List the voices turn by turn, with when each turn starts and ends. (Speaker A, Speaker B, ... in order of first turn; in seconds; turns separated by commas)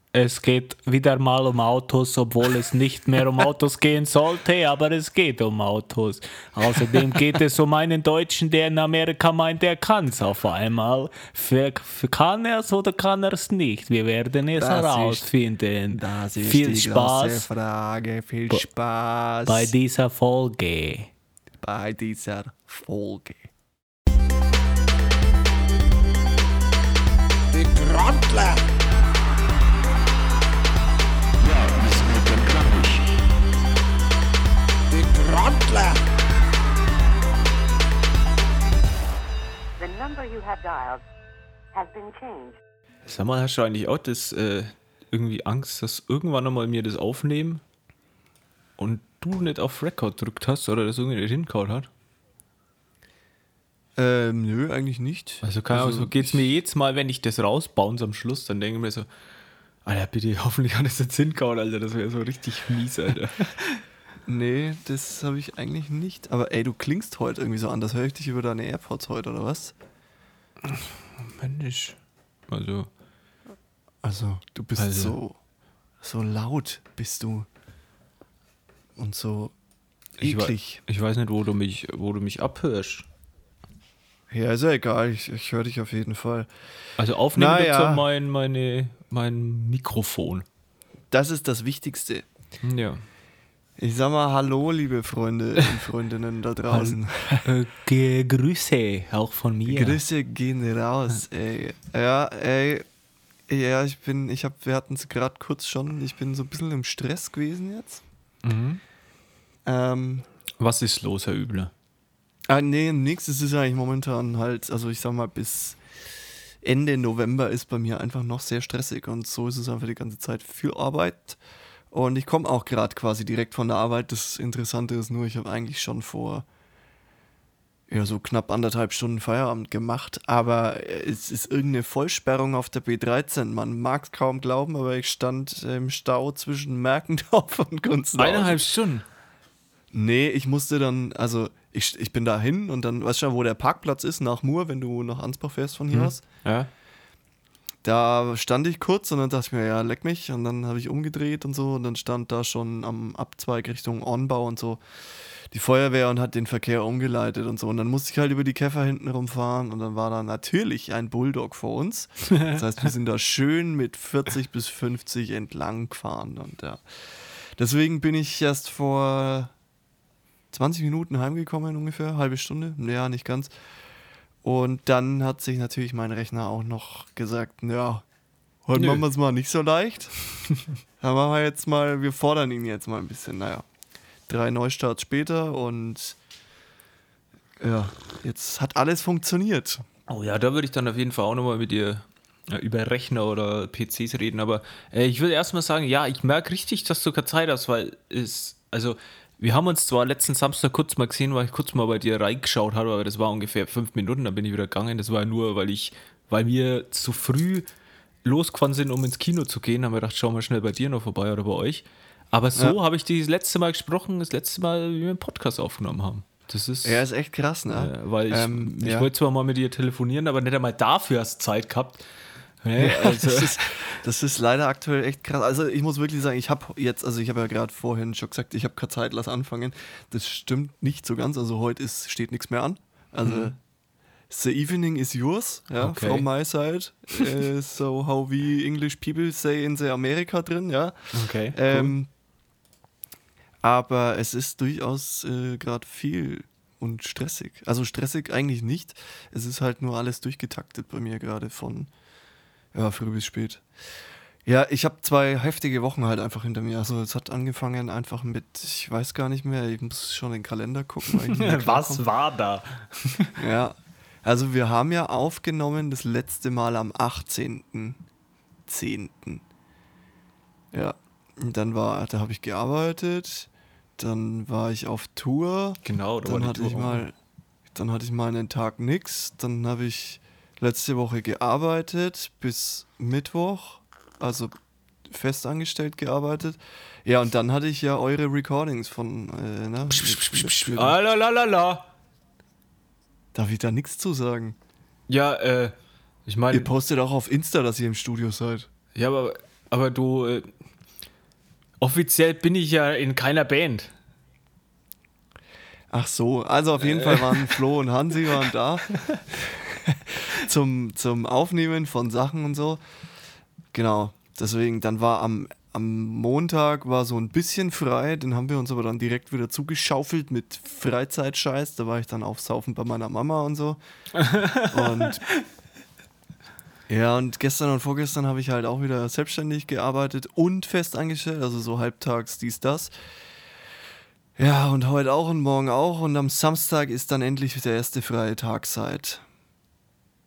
Speaker A: 0.1-17.5, Speaker B: 14.6-15.3, Speaker B: 15.9-19.7, Speaker A: 19.5-21.1, Speaker B: 21.6-23.5, Speaker C: 27.5-28.6, Speaker C: 31.5-33.1, Speaker C: 34.9-36.0, Speaker D: 39.8-41.0, Speaker D: 41.7-42.6, Speaker A: 43.0-47.6, Speaker A: 48.8-51.9, Speaker B: 54.0-56.4, Speaker A: 55.4-59.1, Speaker A: 59.8-63.8, Speaker B: 64.3-69.7, Speaker A: 70.6-72.9, Speaker B: 74.0-75.4, Speaker A: 74.8-75.2, Speaker B: 76.0-77.5, Speaker B: 79.0-79.5, Speaker B: 80.2-80.8, Speaker A: 80.2-83.1, Speaker B: 84.3-86.5, Speaker A: 87.0-90.4, Speaker B: 87.3-88.0, Speaker B: 91.1-92.2, Speaker A: 92.6-93.0, Speaker B: 93.8-97.5, Speaker A: 96.7-100.0, Speaker B: 99.7-102.8, Speaker B: 103.5-108.0, Speaker A: 108.4-108.8, Speaker B: 109.7-110.3, Speaker A: 110.6-111.7, Speaker B: 112.5-115.8, Speaker B: 116.6-121.4, Speaker B: 121.9-126.4, Speaker B: 127.9-138.6, Speaker A: 138.2-139.0, Speaker B: 139.9-146.2, Speaker A: 145.9-146.7, Speaker B: 147.8-169.5, Speaker A: 162.3-162.6, Speaker B: 170.5-173.5, Speaker B: 174.4-178.0, Speaker B: 178.7-180.2, Speaker A: 178.8-179.0, Speaker B: 181.0-183.7, Speaker B: 184.3-186.2, Speaker B: 187.6-189.8, Speaker A: 190.1-207.7, Speaker A: 208.2-217.0, Speaker B: 216.8-219.1, Speaker A: 217.7-222.0, Speaker A: 222.6-223.7, Speaker B: 222.8-233.6, Speaker A: 233.2-233.5, Speaker B: 234.3-242.1, Speaker A: 235.8-236.3, Speaker A: 241.1-241.9, Speaker B: 243.6-251.9, Speaker B: 252.7-262.1, Speaker A: 261.1-263.3, Speaker B: 263.4-268.0, Speaker B: 268.7-269.4, Speaker B: 270.7-277.1, Speaker A: 275.8-277.0, Speaker B: 277.8-284.5, Speaker B: 285.1-290.9, Speaker A: 289.9-291.9, Speaker B: 293.3-294.6, Speaker A: 295.1-295.7, Speaker A: 296.2-296.7, Speaker B: 296.5-298.7, Speaker A: 298.9-300.5, Speaker A: 301.8-303.9, Speaker B: 305.9-312.8, Speaker A: 306.8-307.6, Speaker B: 313.7-323.8, Speaker A: 324.2-325.4, Speaker B: 324.7-325.2, Speaker B: 326.9-332.9, Speaker B: 334.4-339.2